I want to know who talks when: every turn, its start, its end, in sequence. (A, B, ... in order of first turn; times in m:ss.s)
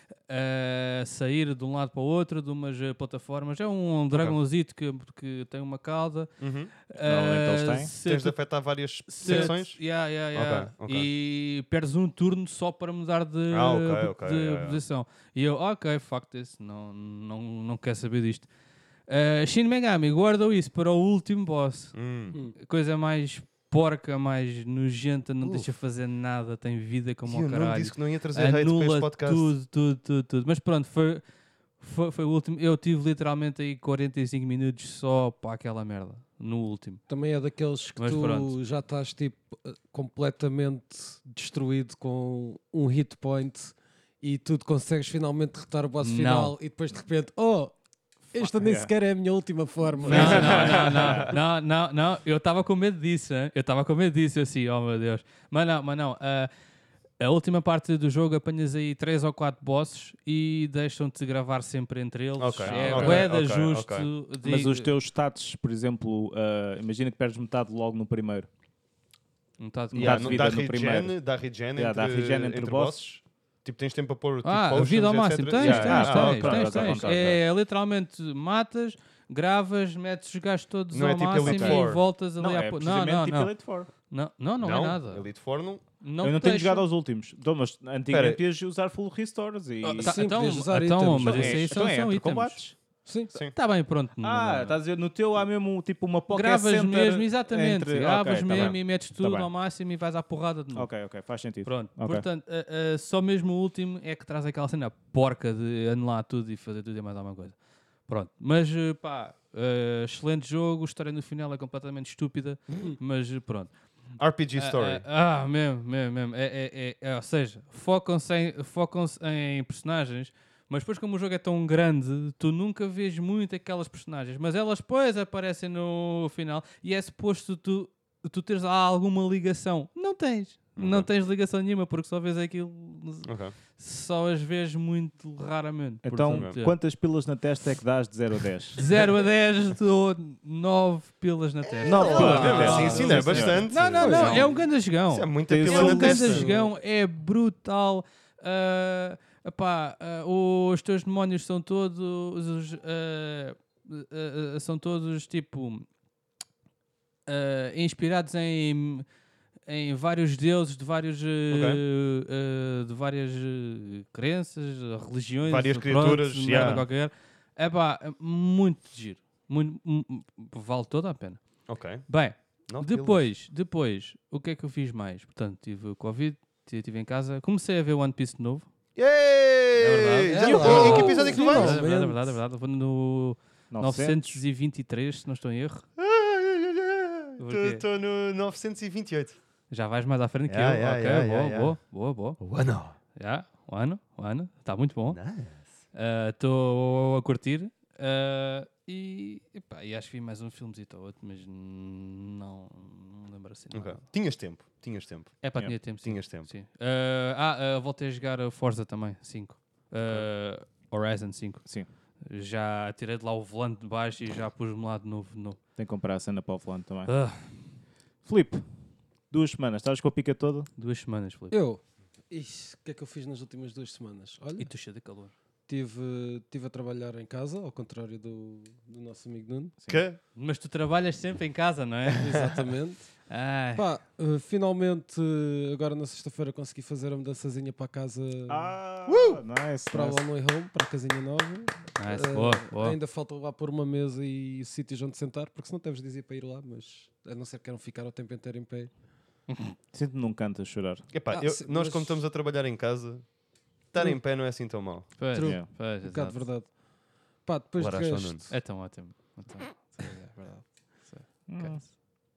0:00.3-0:06.3 A
0:04.1-0:04.4 B
0:06.4-0:06.7 B
0:06.9-0:08.5 A
0:07.0-0:07.9 C
0:08.0-0:09.8 B
0:09.0-0:18.5 A
0:09.2-0:09.5 D
0:10.3-0:11.1 B
0:13.5-0:14.8 B
0:19.1-0:31.2 A
0:22.0-0:22.4 B
0:27.3-0:29.5 B
0:31.8-0:37.0 A
0:37.1-0:50.9 D
0:38.0-0:38.6 A
0:46.0-0:46.6 A
0:48.4-0:48.9 C
0:50.0-0:51.3 C
0:50.1-0:56.5 A
0:50.4-0:50.8 B
0:57.2-1:04.9 A
1:02.4-1:04.1 B
1:02.6-1:03.3 C
1:04.4-1:08.5 C
1:09.6-1:10.5 A
1:09.9-1:11.2 C
1:09.9-1:17.1 B
1:11.8-1:13.2 C
1:14.4-1:25.3 A
1:15.6-1:17.4 C
1:20.9-1:22.0 B
1:21.4-1:21.9 C
1:22.4-1:23.9 C
1:24.6-1:25.8 B
1:26.0-1:26.9 A
1:26.2-1:30.6 C
1:28.1-1:28.4 B
1:29.8-1:31.9 D
1:30.0-1:32.7 A
1:31.2-1:32.8 C
1:33.0-1:33.3 D
1:33.4-1:34.8 A
1:34.2-1:39.5 C
1:36.3-1:41.1 A
1:40.7-1:42.3 C
1:41.6-1:53.7 A
1:54.2-1:55.0 B
1:54.4-2:16.8 A
2:10.8-2:11.1 B
2:13.2-2:13.5 B
2:16.0-2:18.8 C
2:16.3-2:16.6 B
2:18.8-2:35.9 A
2:21.7-2:24.5 B
2:21.8-2:24.5 C
2:22.1-2:24.7 D
2:25.1-2:26.5 B
2:25.5-2:26.5 C
2:26.2-2:26.7 D
2:37.3-2:39.1 A
2:39.7-2:58.7 A
2:41.5-2:41.8 B
2:45.4-2:46.8 B
2:51.7-2:52.0 B
2:52.7-2:53.3 B
2:59.0-3:01.8 B
2:59.8-3:05.8 A
3:00.3-3:02.4 D
3:03.7-3:04.4 C
3:06.0-3:09.4 B
3:07.4-3:07.8 A
3:09.7-3:12.6 A
3:10.5-3:11.8 B
3:12.4-3:12.9 B
3:13.2-3:15.2 A
3:15.1-3:15.7 B
3:15.9-3:24.0 A
3:23.7-3:25.4 B
3:25.4-3:31.7 A
3:25.9-3:26.5 B
3:32.3-3:35.6 A
3:35.8-3:37.1 C
3:37.1-3:37.7 A
3:38.2-3:38.6 C
3:39.3-3:40.7 C
3:40.8-3:41.6 A
3:41.5-3:44.7 D
3:44.6-3:45.3 A
3:45.7-3:49.7 D
3:49.8-3:50.1 C
3:49.9-3:50.2 B
3:50.4-3:52.5 A
3:52.2-3:53.1 D
3:53.3-3:53.8 A
3:53.8-3:58.7 D
3:58.5-4:00.2 C
3:59.1-3:59.4 B
3:59.9-4:08.9 D
4:02.0-4:03.0 A
4:09.9-4:11.0 C
4:11.1-4:15.1 B
4:11.3-4:12.2 D
4:15.2-4:16.4 A
4:15.3-4:16.8 D
4:15.4-4:15.7 C
4:17.4-4:18.6 D
4:17.8-4:18.5 B
4:18.5-4:21.9 A
4:21.5-4:22.0 C